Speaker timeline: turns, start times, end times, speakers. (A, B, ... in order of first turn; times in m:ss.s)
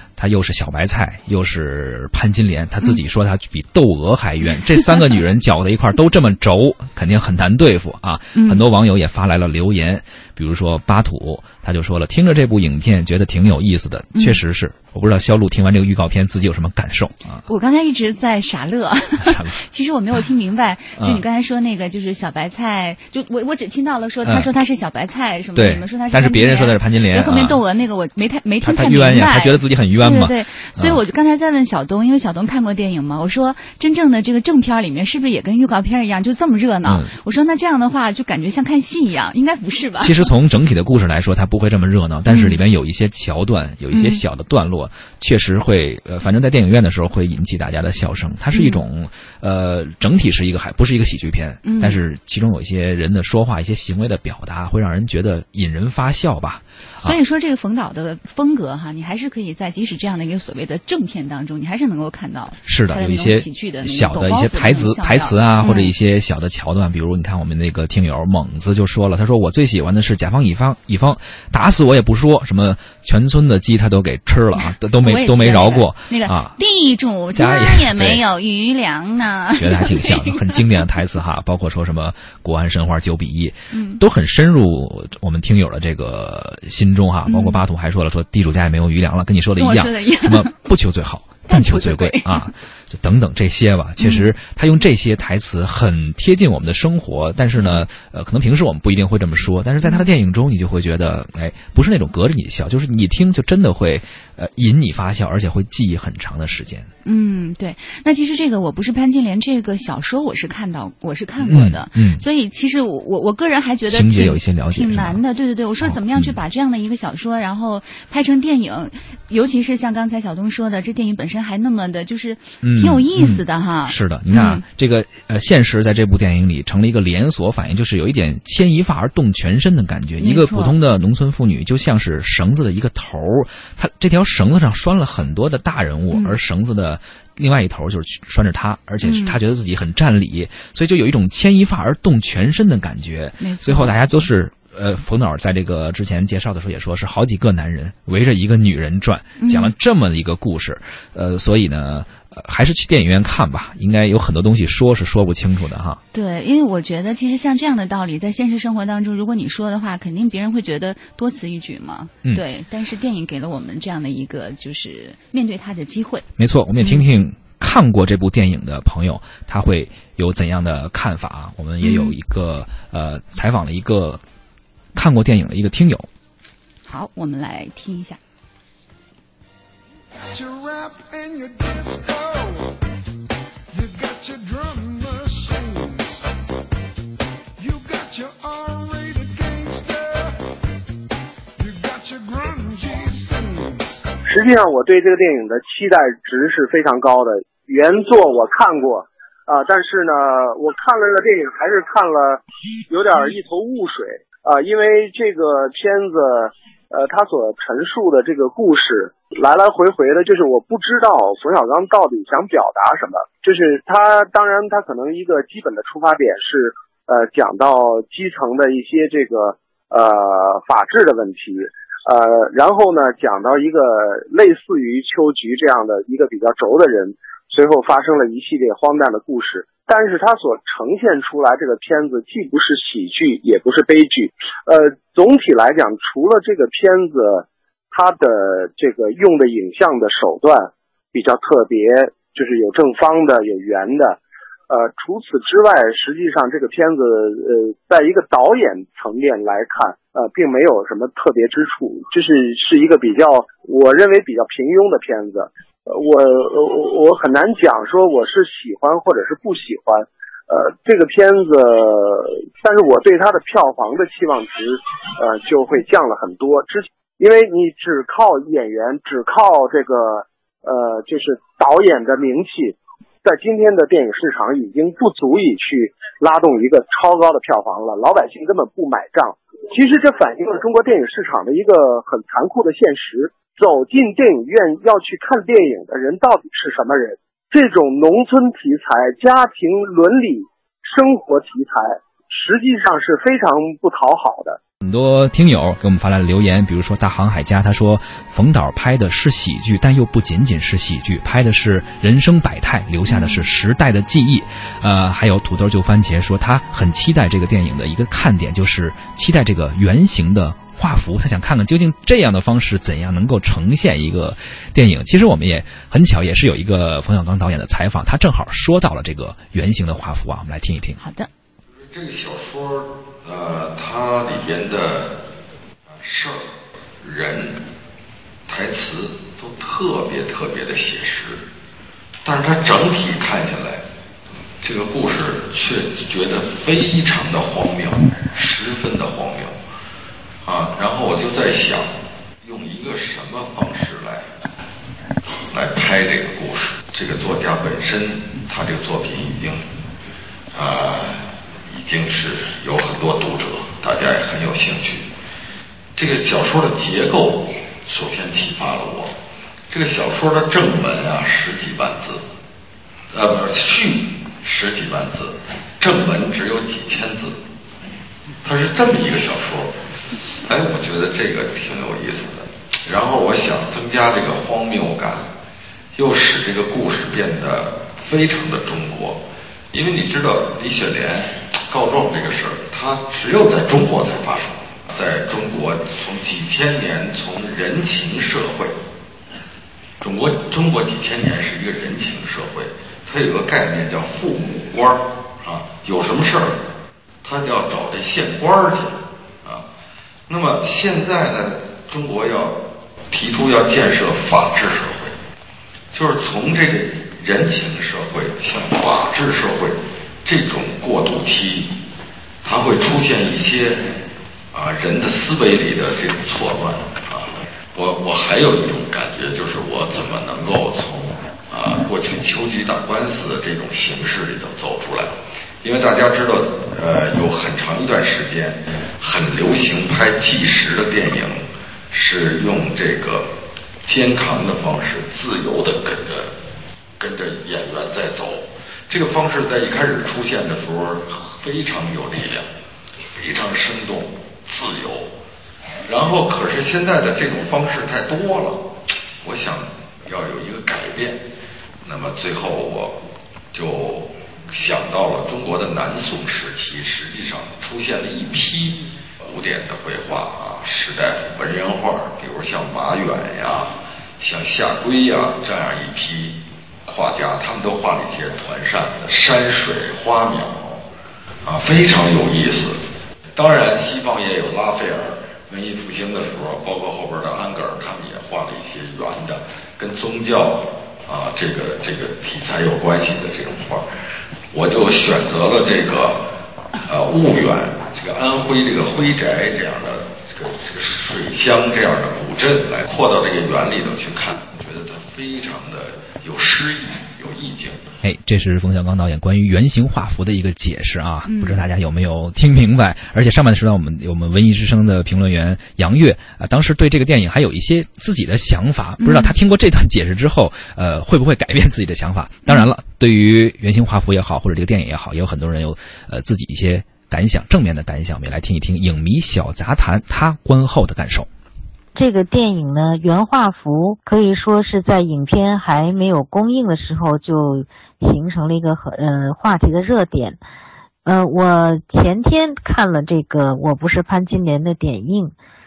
0:00.2-0:17.4 A
0:08.3-0:08.6 B
0:17.4-0:40.3 B
0:19.2-0:19.6 A
0:25.5-0:27.6 A
0:28.6-0:31.0 A
0:36.8-0:37.1 A
0:40.0-0:57.1 A
0:42.3-0:42.6 B
0:43.9-0:44.2 B
0:48.5-0:48.8 B
0:51.6-0:52.0 B
0:57.0-1:05.9 B
1:02.6-1:16.6 A
1:14.6-1:20.6 B
1:17.3-1:18.2 A
1:19.6-1:46.9 A
1:23.7-1:24.0 B
1:27.3-1:27.6 B
1:29.6-1:30.5 B
1:31.5-1:32.5 B
1:34.0-1:34.3 B
1:37.5-1:37.8 B
1:39.8-1:40.1 B
1:47.0-2:04.6 B
1:51.4-1:52.2 A
1:53.9-1:55.2 A
1:55.8-1:56.3 A
2:02.6-2:36.0 A
2:10.2-2:10.8 B
2:16.1-2:16.4 B
2:19.0-2:19.4 B
2:23.4-2:24.2 B
2:29.4-2:29.7 B
2:36.1-2:46.2 B
2:46.4-2:54.2 A
2:46.8-2:47.0 B
2:51.8-2:52.1 B
2:54.9-2:56.1 A
2:56.8-2:58.2 B
3:14.2-4:04.2 C
4:04.7-4:54.6 C
4:54.8-5:21.0 A
5:03.1-5:03.5 B
5:21.0-5:21.3 B
5:21.7-5:25.1 D
5:25.9-5:26.4 D
5:27.0-5:27.6 D
5:28.5-5:31.4 D
5:32.2-5:33.8 D
5:34.6-5:39.5 D
5:40.4-5:44.3 D
5:45.5-5:49.6 D
5:50.5-5:55.0 D
5:56.0-5:59.1 D
5:59.7-6:02.2 D
6:03.1-6:07.4 D
6:08.4-6:09.7 D
6:10.4-6:15.3 D
6:15.9-6:19.2 D
6:19.7-6:28.8 D
6:30.0-6:36.6 D
6:37.2-6:39.6 D
6:40.3-6:42.6 D
6:43.1-6:45.2 D
6:45.9-6:51.7 D
6:52.4-6:53.9 D
6:54.5-7:13.3 D
7:13.8-7:16.3 D
7:17.0-7:22.5 D
7:23.1-7:25.1 D
7:25.8-7:28.6 D
7:29.2-7:31.2 D
7:31.8-7:33.0 D
7:33.5-7:50.8 D
7:51.4-7:52.8 D
7:53.3-8:03.8 D
8:04.5-8:06.2 D
8:06.8-8:17.8 D
8:18.0-8:41.3 A
8:21.2-8:21.6 B
8:29.0-8:29.3 B
8:41.9-8:50.4 E
8:51.0-8:55.3 E